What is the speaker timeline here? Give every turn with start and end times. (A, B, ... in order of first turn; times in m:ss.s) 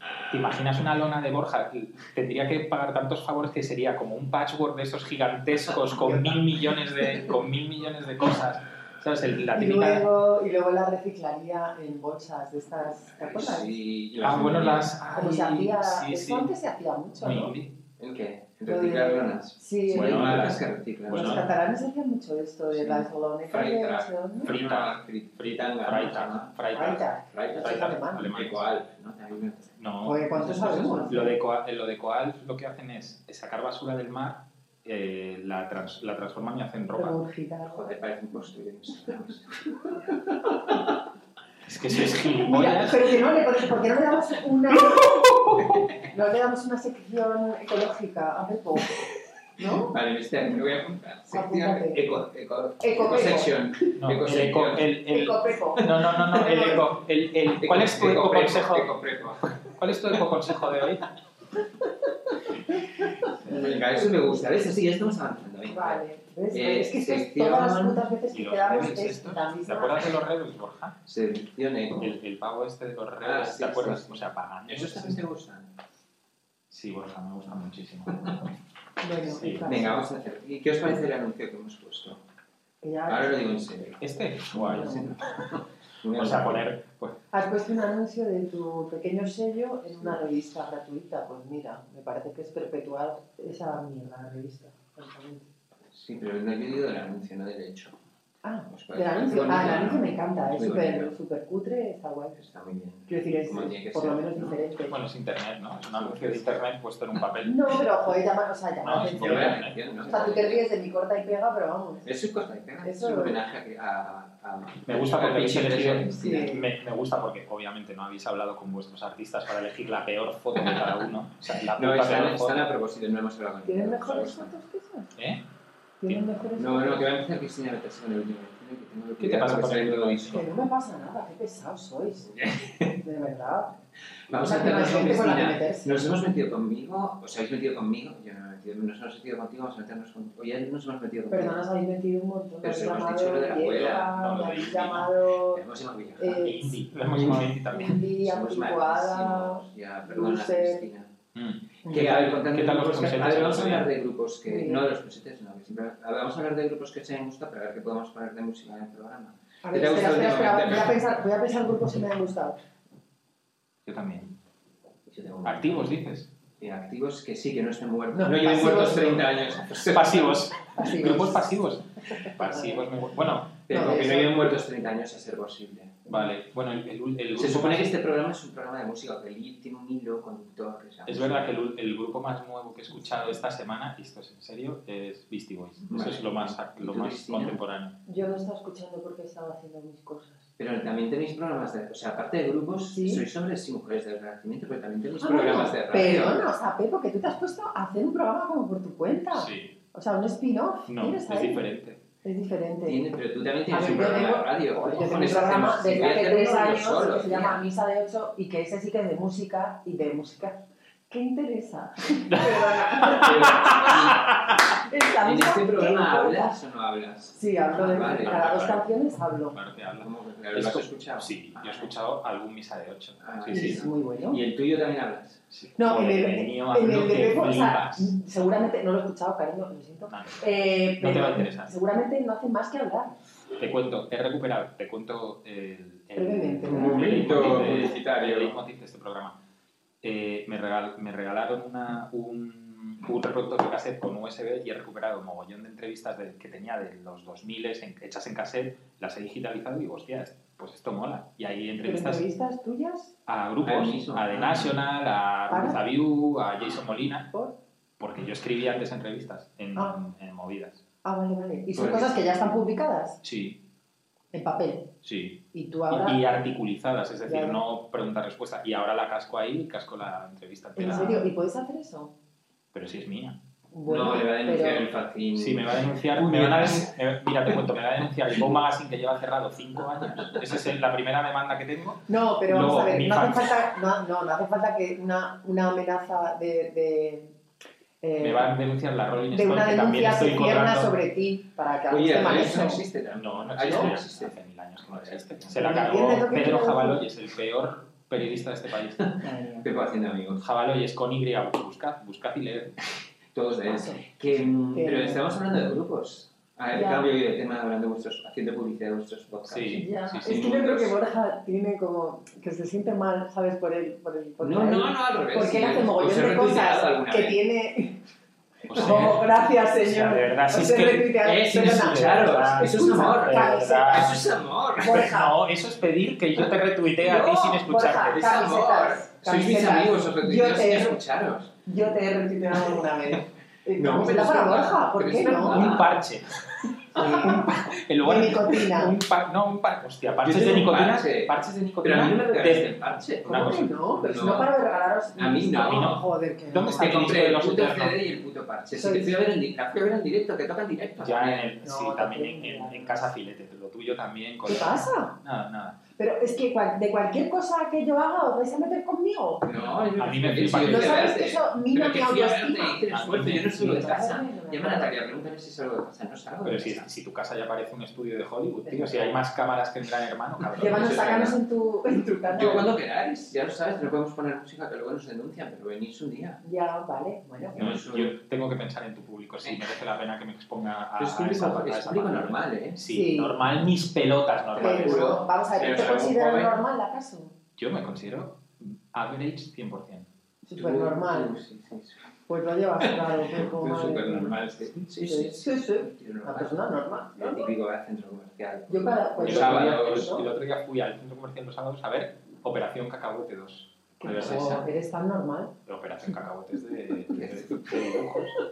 0:00.3-0:10.1 A
0:06.0-0:06.4 B
0:09.5-0:13.7 B
0:13.1-0:14.9 C
0:14.2-0:16.5 A
0:15.0-0:17.5 B
0:17.2-0:17.7 A
0:18.0-0:21.5 C
0:18.7-0:20.5 B
0:19.9-0:21.5 A
0:21.1-0:24.5 B
0:22.7-0:26.6 C
0:24.4-0:27.0 A
0:26.7-0:28.3 B
0:27.3-0:29.8 C
0:27.6-0:28.7 A
0:29.8-0:30.2 A
0:30.0-0:31.4 B
0:30.3-0:31.2 C
0:31.1-0:37.2 A
0:36.9-0:37.8 B
0:37.7-0:40.9 C
0:41.6-0:43.2 A
0:42.2-0:45.2 B
0:45.6-0:45.9 C
0:46.0-0:49.0 B
0:49.6-0:50.0 B
0:49.7-0:54.9 C
0:51.3-0:52.0 B
0:52.8-0:53.5 B
0:54.0-1:01.0 A
0:55.1-0:55.8 B
0:55.8-0:56.8 C
0:56.5-0:56.8 B
0:57.5-1:00.2 C
1:03.2-1:06.0 C
1:03.5-1:04.4 B
1:05.6-1:10.1 B
1:06.5-1:08.0 C
1:08.3-1:11.0 A
1:11.0-1:12.1 C
1:12.0-1:15.2 A
1:13.2-1:15.7 C
1:16.7-1:18.5 A
1:19.0-1:20.0 B
1:19.2-1:19.7 A
1:19.6-1:22.2 C
1:22.8-1:23.5 B
1:23.1-1:26.7 C
1:24.0-1:25.2 A
1:24.6-1:25.1 B
1:26.1-1:27.2 A
1:27.3-1:35.5 B
1:35.9-1:37.9 C
1:38.4-1:42.4 B
1:38.7-1:41.1 C
1:42.4-1:44.6 C
1:43.1-1:45.0 B
1:44.9-1:47.7 A
1:45.9-1:46.5 C
1:47.4-1:52.0 B
1:48.8-1:50.2 A
1:49.2-1:50.6 C
1:52.0-1:56.4 C
1:52.8-1:53.4 B
1:54.8-2:02.7 A
1:56.1-1:56.6 B
2:00.6-2:01.0 C
2:01.7-2:04.5 C
2:03.6-2:05.1 B
2:05.2-2:05.4 A
2:06.0-2:07.1 B
2:06.6-2:10.4 C
2:09.2-2:10.5 A
2:10.3-2:12.3 B
2:12.3-2:13.0 C
2:12.9-2:13.8 B
2:14.3-2:21.6 C
2:14.4-2:16.0 B
2:21.3-2:25.6 B
2:22.6-2:24.1 C
2:23.8-2:25.1 A
2:25.5-2:26.5 C
2:26.2-2:26.8 B
2:26.4-2:28.0 A
2:27.7-2:30.8 B
2:28.2-2:31.1 C
2:31.3-2:33.9 A
2:31.8-2:32.2 B
2:31.8-2:41.1 C
2:34.4-2:34.8 B
2:39.6-2:42.6 B
2:43.8-2:44.4 A
2:45.1-2:45.9 C
2:45.4-2:46.3 A
2:46.6-2:50.3 C
2:48.1-2:49.3 B
2:49.7-2:53.7 A
2:50.7-2:51.4 B
2:52.2-2:53.0 B
2:53.7-2:56.0 C
2:53.7-2:54.4 B
2:56.1-2:57.9 A
2:57.4-3:01.5 C
3:01.1-3:07.9 A
3:05.8-3:07.6 C
3:08.0-3:10.4 B
3:10.6-3:16.5 C
3:12.9-3:13.2 B
3:15.2-3:21.6 B
3:19.3-3:19.7 A
3:20.9-3:22.0 A
3:22.2-3:23.0 B
3:22.8-3:27.6 C
3:23.7-3:34.3 B
3:32.3-3:34.6 A
3:33.0-3:34.3 C
3:34.8-3:36.5 B
3:35.2-3:38.7 C
3:37.3-3:39.6 B
3:38.2-3:38.9 A
3:39.5-3:43.8 A
3:40.0-3:41.9 C
3:43.2-3:45.4 C
3:43.5-3:44.4 B
3:45.5-3:48.1 A
3:45.8-3:53.1 B
3:50.1-3:51.7 A
3:53.6-3:59.4 A
3:56.1-3:57.3 B
3:56.6-3:58.6 C
4:00.0-4:12.2 A
4:11.8-4:13.1 B
4:13.3-4:17.3 A
4:13.6-4:14.8 C
4:15.5-4:15.8 B
4:17.3-4:17.6 B
4:18.0-4:20.8 A
4:21.0-4:23.2 B
4:21.7-4:22.2 C
4:23.2-4:23.6 A
4:24.3-4:24.9 B
4:25.0-4:31.3 A
4:25.5-4:26.2 B
4:27.2-4:27.6 B
4:30.8-4:32.1 B
4:32.7-4:33.4 A
4:33.7-4:34.9 B
4:33.8-4:37.6 C
4:35.4-4:43.6 A
4:42.1-4:47.3 B
4:48.0-4:48.5 B
4:48.2-4:50.9 A
4:49.3-4:52.8 B
4:51.9-4:54.3 C
4:53.2-4:59.1 A
4:53.6-4:53.9 B
4:54.9-4:55.6 C
4:55.5-4:57.0 B
4:59.0-5:00.4 C
4:59.2-4:59.6 B
5:00.4-5:02.7 A
5:03.3-5:11.0 C
5:03.7-5:04.0 B
5:04.7-5:05.3 B
5:06.7-5:07.1 B
5:09.5-5:10.4 A
5:09.7-5:18.0 B
5:14.4-5:17.4 C
5:18.6-5:19.3 A
5:18.7-5:24.2 B
5:19.8-5:24.2 A
5:21.2-5:25.1 C
5:24.8-5:25.3 B
5:24.8-5:28.3 A
5:27.0-5:31.0 B
5:28.1-5:31.6 C
5:31.6-5:35.7 B
5:33.8-5:36.0 C
5:35.4-5:36.3 A
5:36.9-5:37.5 C
5:36.9-5:39.0 B
5:36.9-5:43.8 A
5:40.2-5:44.5 C
5:43.2-5:47.1 B
5:45.1-5:46.0 C
5:45.6-5:48.0 A
5:46.8-5:51.5 C
5:48.7-5:49.2 B
5:51.0-5:55.8 A
5:51.6-5:53.0 B
5:54.4-5:55.1 B
5:56.0-5:59.4 B
5:59.4-6:06.9 C
5:59.5-6:01.2 A
6:00.6-6:04.9 B
6:02.9-6:03.8 A
6:06.4-6:11.3 A
6:08.6-6:09.1 B
6:10.6-6:12.7 B
6:10.6-6:11.4 C
6:12.3-6:16.4 C
6:16.4-6:17.6 B
6:17.4-6:18.2 C
6:17.6-6:25.1 A
6:19.4-6:19.7 C
6:21.0-6:22.8 C
6:22.9-6:23.4 B
6:24.5-6:26.6 C
6:24.6-6:27.3 B
6:27.6-6:30.1 A
6:30.4-6:31.3 B
6:30.5-6:32.0 C
6:32.3-6:34.4 B
6:32.8-6:40.2 C
6:35.0-6:37.5 B
6:38.7-6:40.2 B
6:39.2-6:44.7 A
6:44.0-6:45.5 B
6:45.6-6:48.3 A
6:47.1-6:48.2 C